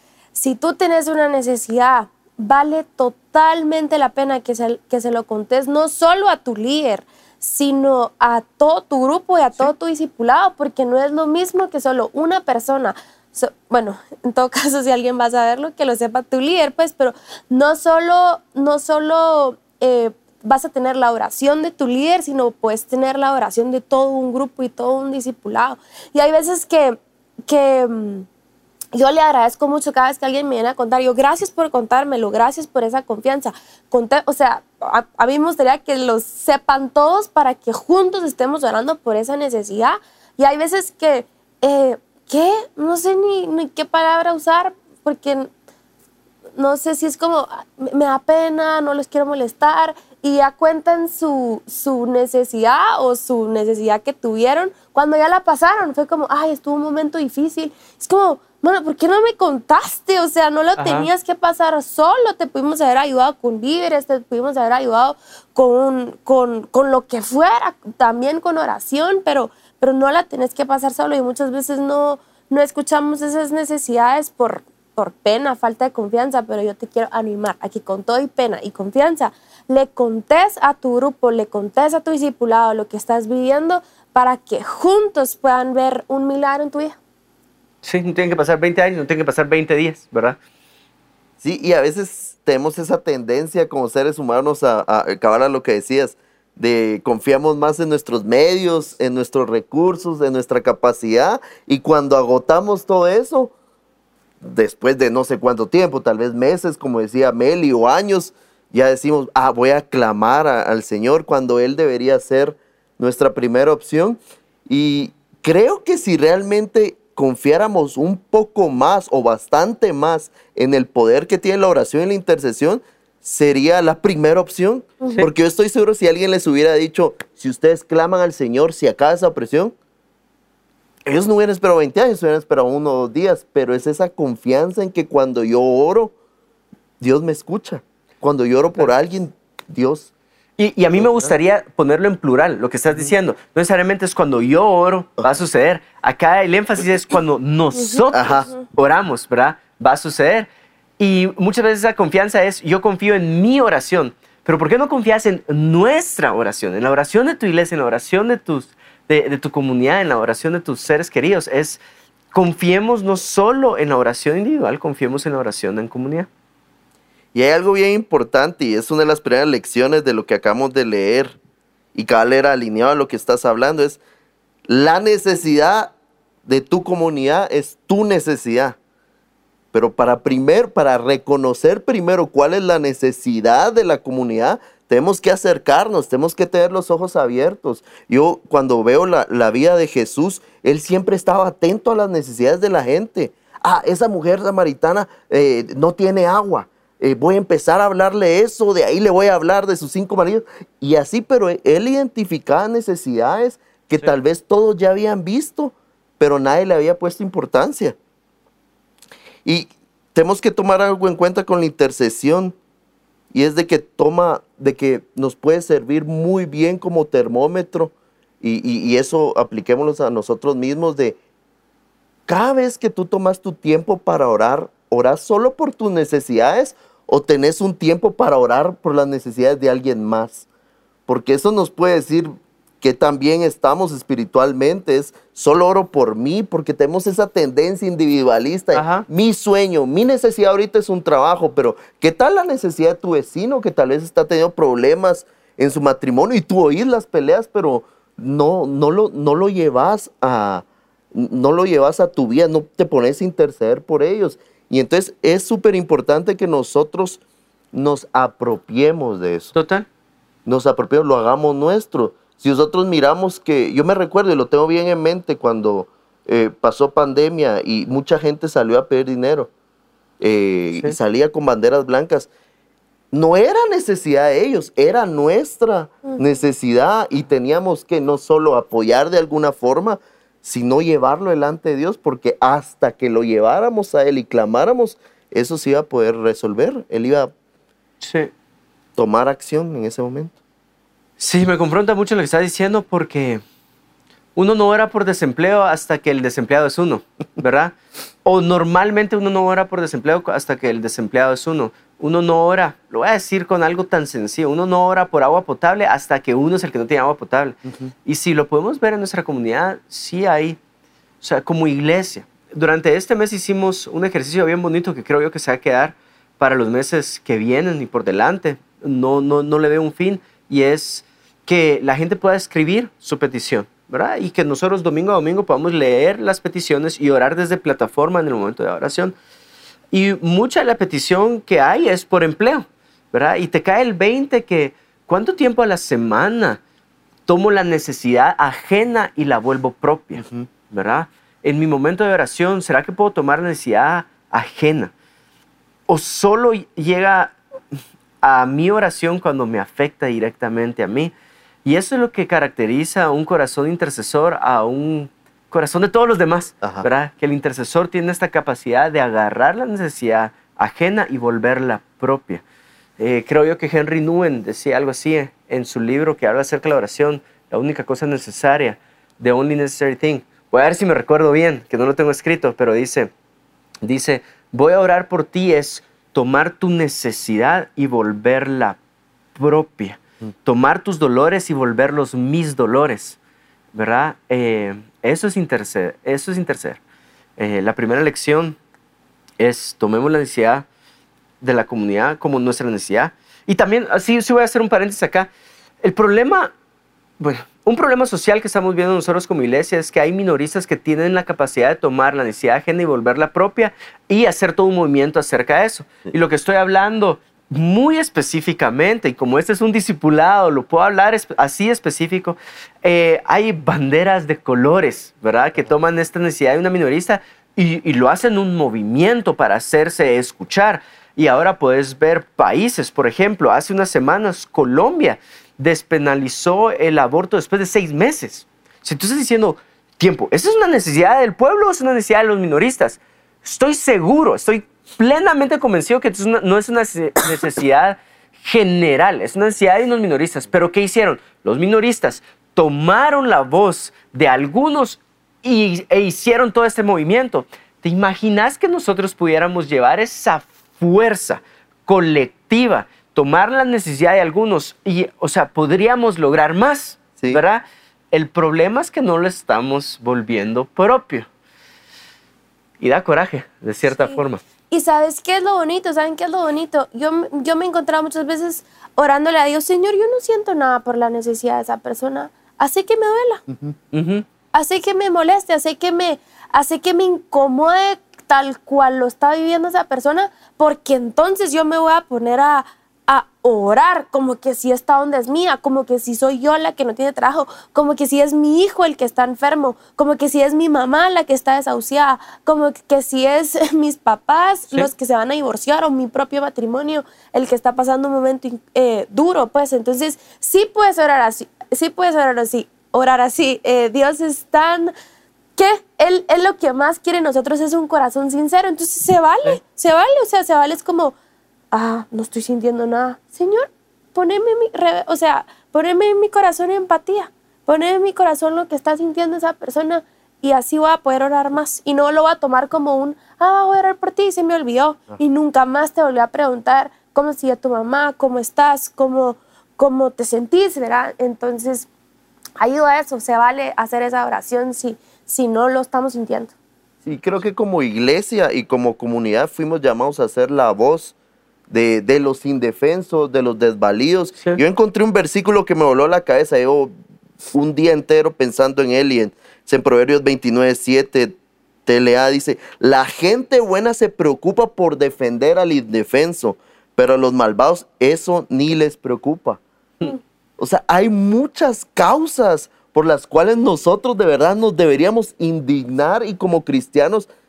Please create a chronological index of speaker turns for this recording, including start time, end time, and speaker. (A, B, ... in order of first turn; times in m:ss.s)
0:00.4-0:28.3 A
0:28.9-0:45.5 A
0:46.6-1:27.0 A
1:00.8-1:01.1 B
1:27.8-1:30.4 B
1:31.4-1:43.5 C
1:44.4-2:09.7 C
2:11.1-2:16.1 C
2:17.0-2:20.1 C
2:20.6-2:30.5 B
2:21.0-2:21.3 C
2:28.1-2:28.5 C
2:31.0-2:41.8 B
2:42.3-2:46.3 B
2:47.3-2:51.4 C
2:52.0-2:54.0 C
2:54.7-2:55.9 C
2:56.5-2:58.8 C
2:59.7-3:28.0 C
3:29.4-3:32.6 C
3:33.3-3:41.2 C
3:42.3-3:50.4 C
3:51.1-4:17.2 C
3:58.7-3:59.0 B
4:17.7-4:19.5 C
4:19.5-4:19.9 B
4:20.5-4:29.5 C
4:30.2-4:32.3 C
4:33.1-4:47.3 C
4:48.0-4:48.3 B
4:49.0-4:50.3 C
4:51.2-4:53.4 B
4:54.4-5:10.6 B
5:11.2-5:29.1 B
5:29.9-5:36.6 B
5:37.3-5:44.9 B
5:40.2-5:40.5 C
5:45.9-5:47.4 B
5:48.2-5:51.1 B
5:51.6-6:02.4 B
5:56.6-5:56.9 C
6:03.0-6:13.1 B
6:13.8-6:18.8 B
6:19.4-6:23.2 B
6:23.7-6:26.8 B
6:27.4-6:28.6 B
6:29.4-6:30.6 B
6:31.4-6:35.3 B
6:35.8-6:36.5 B
6:37.2-7:41.3 B
7:42.8-7:44.4 B
7:44.0-7:53.4 A
7:53.9-7:54.2 B
7:54.5-8:24.9 A
8:25.6-8:31.1 A
8:31.7-8:51.9 A
8:52.6-8:56.5 A
8:57.0-9:01.1 C
9:01.7-9:06.9 C
9:07.5-9:11.4 C
9:11.9-9:19.6 C
9:20.6-9:27.3 C